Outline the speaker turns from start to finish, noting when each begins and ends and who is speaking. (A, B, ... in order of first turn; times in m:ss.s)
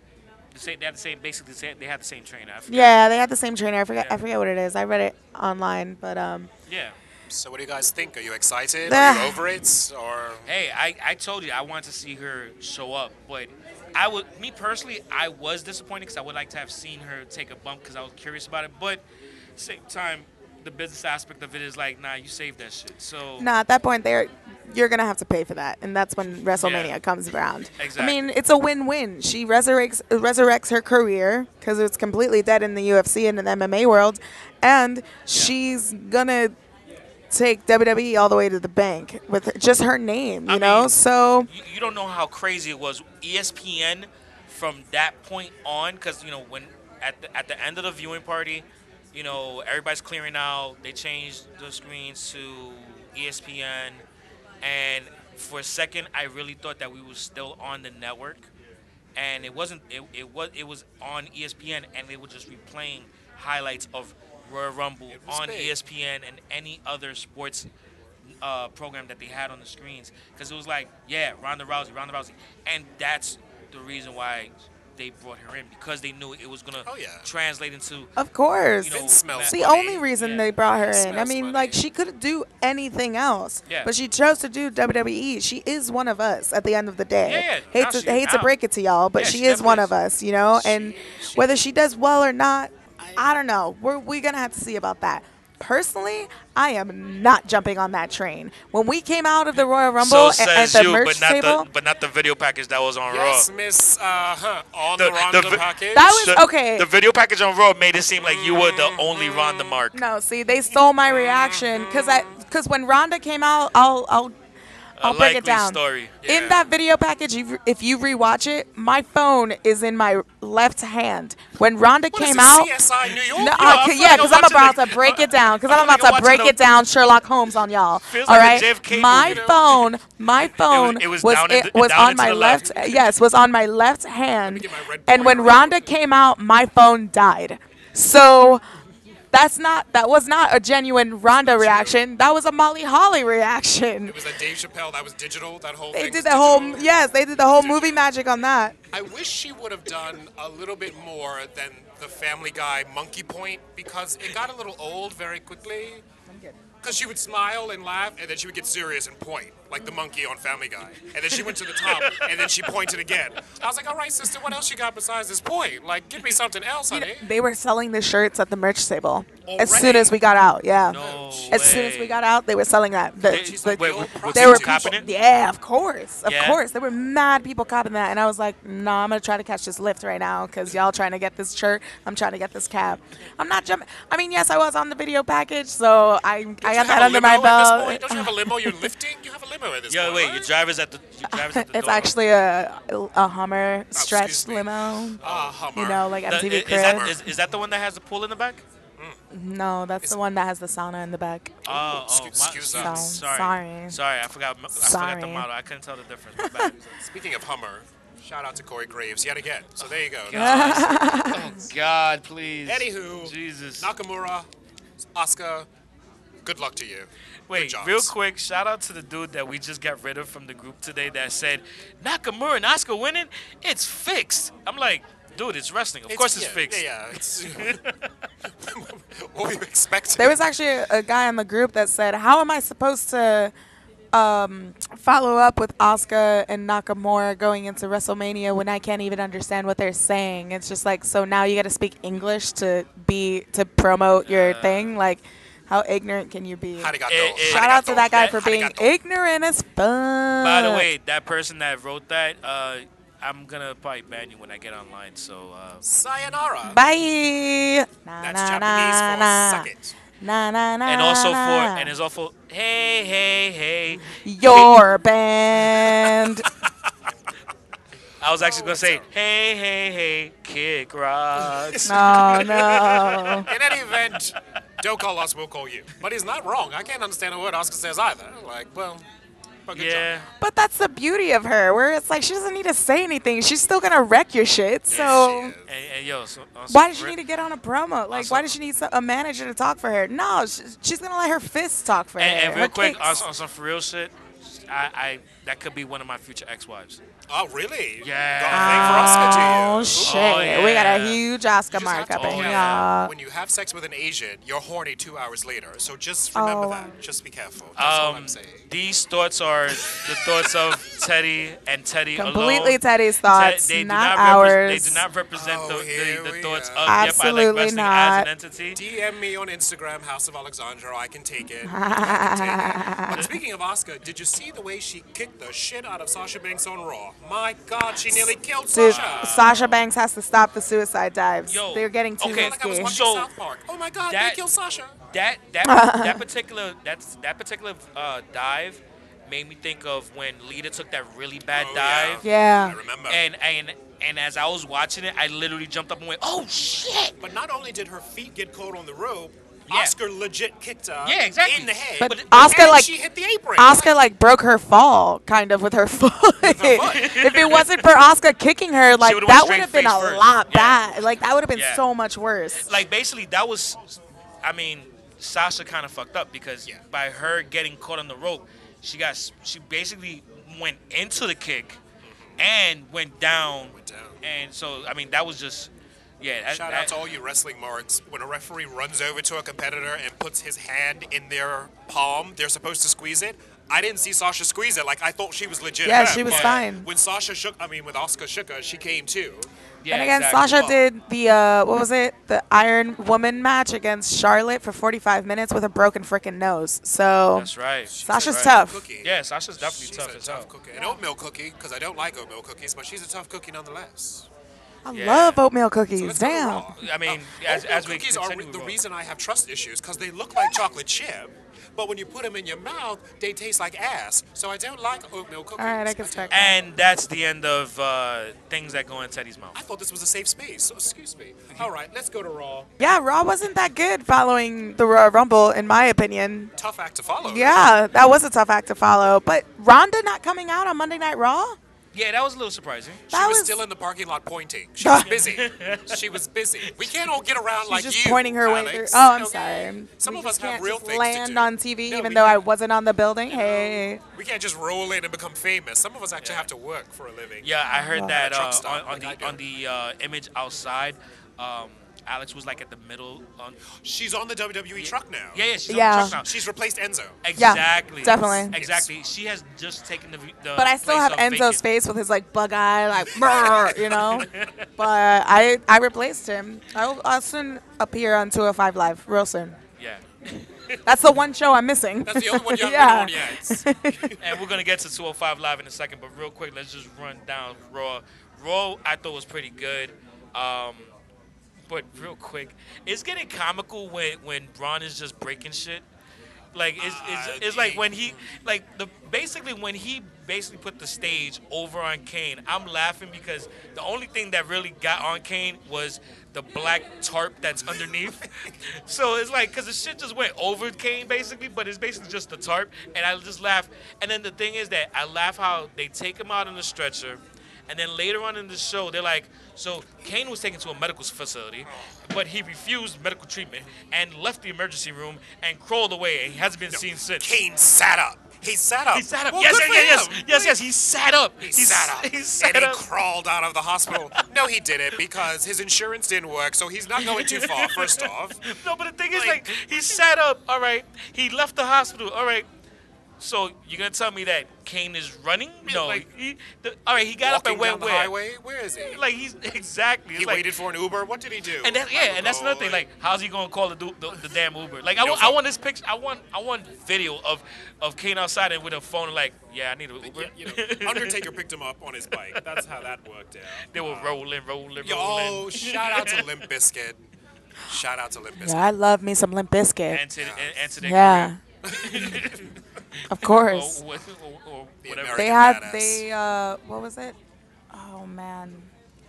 0:00.5-0:03.0 A
0:02.7-0:06.5 B
0:06.7-0:07.0 A
0:07.3-0:10.5 C
0:08.9-0:09.4 B
0:10.5-0:19.0 A
0:19.6-0:23.5 A
0:23.4-0:36.5 B
0:26.5-0:26.9 A
0:27.8-0:28.2 A
0:37.3-0:41.5 B
0:40.5-0:40.9 A
0:41.5-0:54.0 A
0:54.6-0:58.5 A
0:59.2-1:07.7 A
1:05.1-1:05.8 C
1:08.4-1:18.1 A
1:16.9-1:17.3 C
1:18.2-1:41.7 B
1:18.8-1:20.5 A
1:18.9-1:20.1 C
1:20.6-1:21.8 C
1:27.2-1:28.6 A
1:29.2-1:29.9 A
1:30.5-1:31.6 A
1:40.0-1:43.5 A
1:43.1-1:46.3 C
1:45.0-1:50.0 A
1:45.9-1:46.9 B
1:48.2-1:49.8 C
1:49.9-1:54.4 B
1:51.3-1:52.2 C
1:55.0-1:56.7 A
1:55.0-2:02.8 B
2:02.1-2:06.6 C
2:03.3-2:18.6 B
2:03.5-2:04.5 A
2:08.1-2:09.7 A
2:09.2-2:09.6 C
2:10.6-2:12.9 A
2:12.4-2:13.1 C
2:14.5-2:15.9 C
2:19.3-2:24.2 B
2:21.4-2:22.0 C
2:24.0-2:28.0 C
2:25.9-2:28.8 B
2:28.9-2:36.0 C
2:36.3-2:36.6 B
2:36.8-2:47.3 C
2:41.8-2:42.5 A
2:46.9-2:51.0 B
2:49.4-2:50.2 C
2:50.9-2:52.2 A
2:50.9-2:51.7 C
2:51.5-3:08.9 B
2:53.2-2:55.1 A
2:53.3-2:55.0 C
2:56.2-2:56.6 A
3:06.6-3:10.5 C
3:09.9-3:12.1 A
3:11.3-3:15.2 B
3:14.0-3:17.3 C
3:15.2-3:15.6 A
3:15.7-3:17.2 B
3:16.3-3:18.6 A
3:19.3-3:21.6 B
3:21.7-3:23.2 C
3:21.7-3:26.8 A
3:22.7-3:24.0 B
3:24.8-3:25.5 B
3:26.4-3:26.7 B
3:26.9-3:30.6 C
3:29.8-3:33.9 A
3:30.3-3:31.6 B
3:32.7-3:34.5 C
3:35.2-3:35.7 C
3:36.4-3:38.1 C
3:37.5-3:48.1 A
3:46.1-3:47.8 C
3:48.5-3:50.4 C
3:50.2-3:53.5 B
3:54.1-4:10.9 B
4:04.2-4:05.0 A
4:06.8-4:08.9 C
4:07.1-4:08.4 A
4:10.4-4:15.8 A
4:15.8-4:16.8 C
4:16.7-4:19.7 B
4:18.2-4:19.9 C
4:20.2-4:21.9 B
4:20.8-4:24.8 A
4:24.2-4:26.5 B
4:25.9-4:26.7 C
4:28.2-4:33.5 A
4:28.4-4:29.1 C
4:31.4-4:32.9 C
4:31.9-4:33.5 B
4:33.4-4:39.0 C
4:39.7-4:40.1 C
4:39.7-4:40.3 A
4:40.4-4:45.6 B
4:44.9-4:45.7 C
4:44.9-4:47.2 A
4:46.7-4:53.2 B
4:48.1-4:48.5 A
4:52.2-4:57.0 A
4:57.3-5:00.5 C
4:58.0-5:01.2 A
4:58.5-5:03.1 B
5:01.7-5:08.7 C
5:02.1-5:02.9 A
5:06.3-5:06.9 B
5:07.8-5:18.8 A
5:09.8-5:10.5 C
5:12.2-5:15.0 B
5:15.3-5:16.9 C
5:16.8-5:18.3 B
5:18.7-5:29.5 C
5:21.6-5:23.3 B
5:28.7-5:32.9 B
5:28.8-5:29.8 A
5:31.5-5:33.3 A
5:32.2-5:35.0 C
5:34.1-5:34.4 A
5:35.1-5:42.2 A
5:35.6-5:36.2 B
5:41.5-5:43.2 C
5:42.2-5:42.8 B
5:43.1-5:47.2 A
5:47.2-5:54.0 C
5:49.7-5:50.0 A
5:51.0-5:52.2 A
5:52.0-5:52.9 B
5:53.6-6:02.7 B
5:56.4-5:57.6 C
5:56.9-5:57.8 A
5:59.0-6:00.8 A
6:01.5-6:01.8 A
6:02.5-6:11.8 A
6:12.4-6:16.9 A
6:13.7-6:14.2 C
6:16.5-6:29.5 C
6:25.8-6:26.9 B
6:26.3-6:26.6 A
6:29.8-6:30.8 A
6:29.9-6:37.5 B
6:37.3-6:40.5 A
6:37.9-6:44.3 C
6:38.0-6:38.9 B
6:44.9-6:46.7 B
6:44.9-6:45.4 A
6:46.0-6:56.5 C
6:46.7-6:48.8 A
6:55.6-6:56.6 B
6:56.3-6:59.6 A
6:59.6-7:02.7 C
7:02.8-7:06.5 B
7:06.6-7:07.7 C
7:07.2-7:11.6 B
7:11.9-7:13.1 A
7:13.1-7:22.4 C
7:13.1-7:13.6 B
7:14.8-7:15.2 B
7:15.0-7:16.9 A
7:17.7-7:24.0 B
7:23.3-7:29.4 C
7:26.2-7:26.5 A
7:27.4-7:33.6 A
7:27.7-7:28.2 B
7:33.8-7:35.4 C
7:34.8-7:36.3 A
7:35.7-7:36.2 B
7:36.2-7:37.2 C
7:37.2-7:41.6 A
7:37.3-7:38.5 B
7:38.5-7:38.9 C
7:40.6-7:49.6 B
7:43.2-7:44.0 C
7:44.0-7:44.7 A
7:49.8-7:50.8 A
7:50.8-7:54.2 B
7:52.0-7:53.7 C
7:54.2-8:00.9 A
8:01.7-8:05.8 A
8:06.5-8:37.4 A
8:06.8-8:08.2 C
8:17.6-8:18.5 C
8:36.7-8:40.6 C
8:38.9-8:42.8 A
8:41.4-8:48.5 C
8:47.0-8:52.5 A
8:49.1-8:49.7 C
8:53.2-8:58.1 A
8:55.7-8:56.1 C
8:57.2-8:59.0 C
8:58.9-9:00.5 A
9:00.2-9:02.8 C
9:01.6-9:11.2 A
9:05.0-9:05.4 C
9:10.0-9:14.2 C
9:13.7-9:16.2 A
9:14.8-9:17.0 C
9:17.6-9:18.7 C
9:18.4-9:20.0 B
9:19.9-9:25.4 A
9:20.2-9:20.7 C
9:20.8-9:21.4 B
9:21.6-9:22.2 C
9:23.1-9:23.8 B
9:24.8-9:26.0 C
9:25.2-9:27.2 B
9:27.7-9:28.7 B